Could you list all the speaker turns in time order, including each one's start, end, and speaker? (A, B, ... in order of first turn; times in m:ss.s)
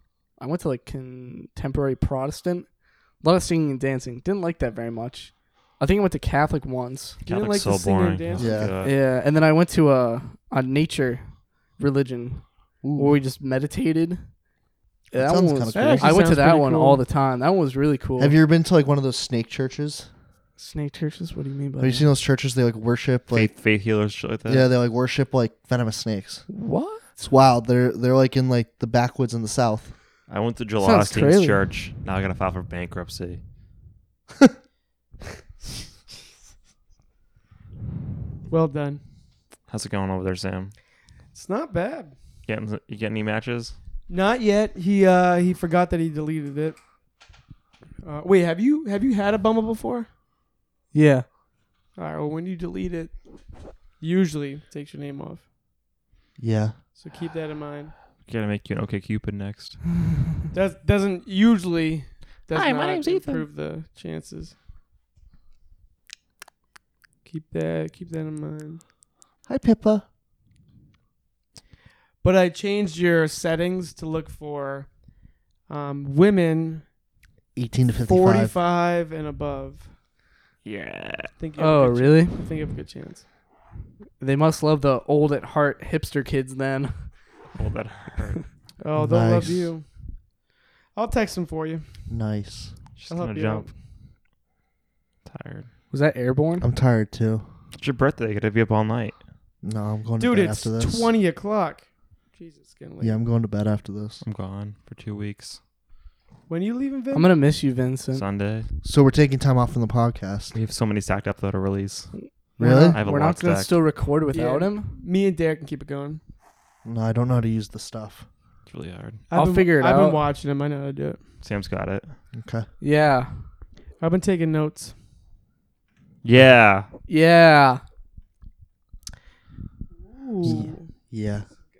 0:00.4-0:07.2 A
0:07.2-0:08.9 B
0:07.3-0:08.6 C
0:08.4-0:08.7 D
0:08.8-0:14.3 A
0:12.8-0:13.2 D
0:15.1-0:18.4 A
0:15.1-0:16.2 D
0:15.7-0:17.0 C
0:18.2-0:20.1 D
0:20.6-0:22.1 A
0:21.8-0:23.5 D
0:23.3-0:24.7 B
0:24.4-0:26.4 D
0:26.5-0:27.0 A
0:27.2-0:29.9 D
0:30.3-0:33.4 B
0:30.8-0:31.6 A
0:38.5-0:39.0 C
0:39.7-0:40.7 B
0:41.3-0:42.1 C
0:42.4-0:43.7 B
0:44.1-0:46.8 C
0:48.0-0:50.1 C
0:50.9-0:51.2 A
0:51.9-0:53.2 C
0:54.0-0:55.4 C
0:56.4-0:56.8 D
0:57.0-0:57.9 C
0:58.2-0:59.8 B
1:00.5-1:04.5 C
1:02.5-1:03.4 B
1:07.2-1:08.8 C
1:09.5-1:10.0 D
1:12.2-1:15.0 C
1:15.6-1:16.8 C
1:17.6-1:18.5 D
1:18.0-1:19.9 C
1:20.6-1:21.3 B
1:21.4-1:23.2 C
1:21.6-1:22.4 A
1:24.2-1:27.1 A
1:27.5-1:28.4 B
1:28.8-1:29.8 C
1:29.0-1:29.7 D
1:30.9-1:31.9 C
1:32.1-1:32.7 D
1:33.0-1:33.7 B
1:33.1-1:33.7 C
1:35.2-1:35.7 B
1:35.9-1:36.7 A
1:36.6-1:37.4 D
1:37.8-1:39.2 B
1:39.6-1:41.1 D
1:40.2-1:43.2 C
1:43.0-1:44.2 D
1:44.2-1:45.6 B
1:46.5-1:47.4 C
1:47.1-1:48.2 A
1:48.1-1:48.7 B
1:48.8-1:50.5 D
1:50.5-1:52.1 B
1:52.2-1:54.9 A
1:52.6-1:53.0 D
1:52.9-1:53.8 B
1:54.3-1:56.2 C
1:56.8-1:58.2 D
1:58.7-1:59.2 B
1:59.3-2:01.2 C
1:59.3-2:00.2 A
2:01.4-2:02.1 B
2:02.3-2:02.7 D
2:02.8-2:03.3 A
2:04.0-2:04.9 C
2:06.2-2:06.9 B
2:07.1-2:07.8 A
2:10.1-2:10.9 C
2:10.4-2:11.4 D